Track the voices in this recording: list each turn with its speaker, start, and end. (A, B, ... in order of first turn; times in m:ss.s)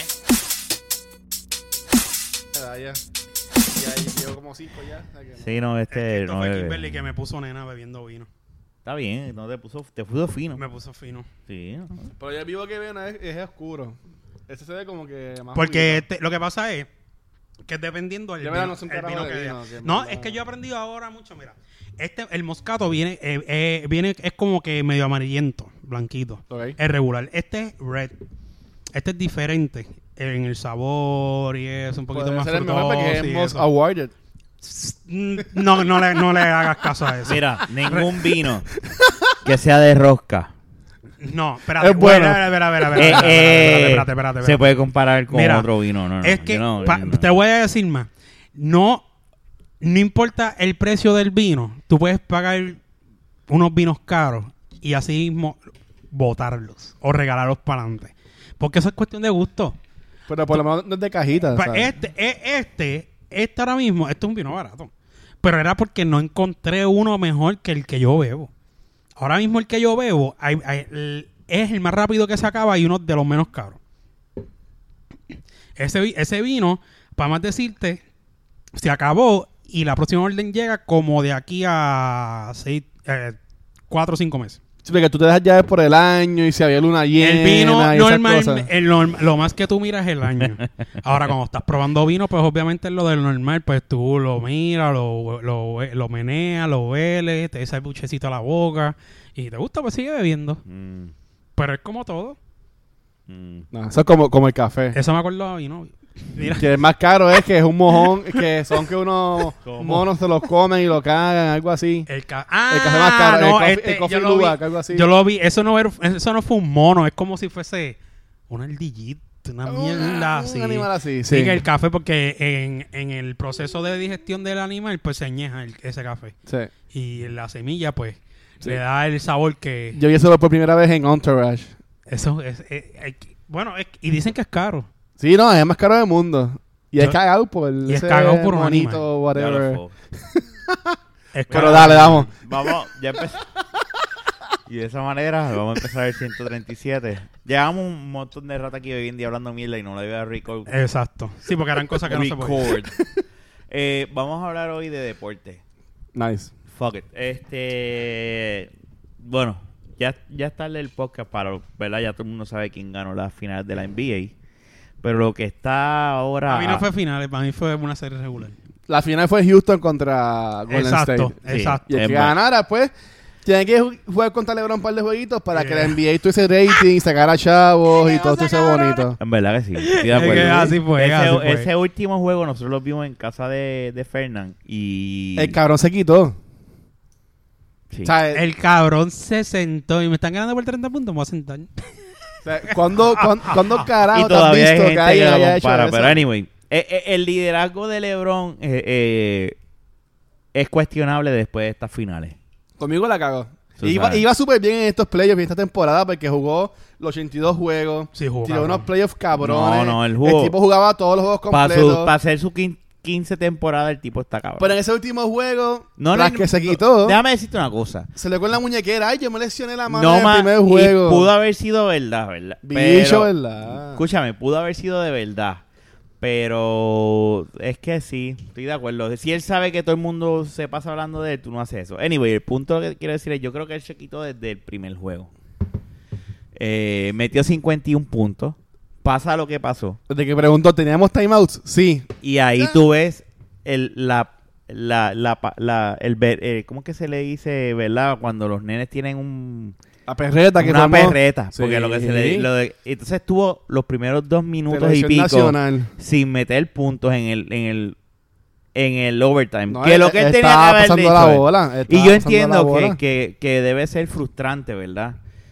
0:02.5-0:03.0 A
0:03.7-0:05.5 A
0:05.4-0:06.8 B
0:05.9-0:08.3 C
0:08.8-0:10.6 B
0:10.6-0:11.3 C
0:11.5-0:12.1 B
0:12.2-0:14.0 A
0:14.5-0:16.0 A
0:15.5-0:16.9 C
0:17.7-0:28.1 C
0:18.4-0:20.4 A
0:26.5-0:26.8 A
0:28.9-0:33.6 C
0:32.1-0:34.1 A
0:34.6-0:38.1 C
0:35.8-0:36.5 A
0:37.2-0:38.6 B
0:38.8-0:39.3 A
0:39.4-0:40.5 B
0:41.2-0:44.6 C
0:41.8-0:43.4 A
0:43.0-0:47.3 B
0:45.3-0:45.7 C
0:46.2-0:49.0 C
0:49.8-0:52.8 C
0:53.5-0:55.6 C
0:56.1-0:59.8 C
1:00.3-1:01.9 A
1:01.4-1:04.9 C
1:05.4-1:08.5 C
1:09.2-1:13.8 C
1:15.8-1:18.0 C
1:18.7-1:23.4 C
1:23.9-1:24.6 C
1:24.8-1:28.7 A
1:27.2-1:40.6 C
1:40.6-1:41.1 B
1:41.6-1:42.4 C
1:43.3-1:43.7 B
1:43.7-1:45.0 A
1:44.9-1:46.7 C
1:46.6-1:52.1 A
1:48.0-1:48.4 C
1:49.6-1:50.0 B
1:49.7-1:50.0 C
1:52.1-1:58.0 C
1:52.7-1:55.1 A
1:58.5-2:06.3 C
1:59.6-2:01.6 A
2:06.9-2:10.0 C
2:09.9-2:11.7 A
2:12.1-2:14.9 C
2:15.2-2:21.0 A
2:17.9-2:19.0 C
2:19.3-2:19.9 B
2:21.3-2:22.3 C
2:21.5-2:23.4 B
2:21.5-2:22.3 A
2:24.7-2:30.7 B
2:30.7-2:32.7 C
2:31.9-2:33.2 A
2:32.1-2:32.9 B
2:33.7-2:35.6 B
2:36.1-2:36.5 A
2:36.7-2:38.7 B
2:39.2-2:44.3 B
2:45.0-2:46.8 B
2:46.5-2:48.5 C
2:48.9-2:51.4 A
2:50.7-2:51.8 C
2:51.5-2:52.3 B
2:51.9-2:52.9 A
2:53.4-2:59.2 A
2:55.5-2:56.0 C
2:59.1-3:05.6 B
2:59.8-3:01.7 C
3:00.1-3:00.7 A
3:05.4-3:06.4 A
3:08.0-3:08.4 A
3:08.3-3:11.8 C
3:12.4-3:16.2 A
3:12.6-3:13.8 C
3:14.1-3:19.6 B
3:20.5-3:22.4 B
3:22.8-3:32.1 A
3:23.8-3:24.2 B
3:28.2-3:28.9 C
3:29.4-3:30.5 B
3:31.5-3:34.7 B
3:34.6-3:37.2 A
3:36.0-3:38.1 B
3:38.2-3:41.3 A
3:39.9-3:45.6 B
3:42.6-3:44.0 A
3:46.2-3:55.3 B
3:56.5-4:00.0 B
4:00.1-4:02.8 A
4:02.2-4:09.8 B
4:10.1-4:12.5 A
4:10.6-4:18.0 B
4:14.7-4:15.9 A
4:18.7-4:25.2 B
4:19.7-4:23.0 A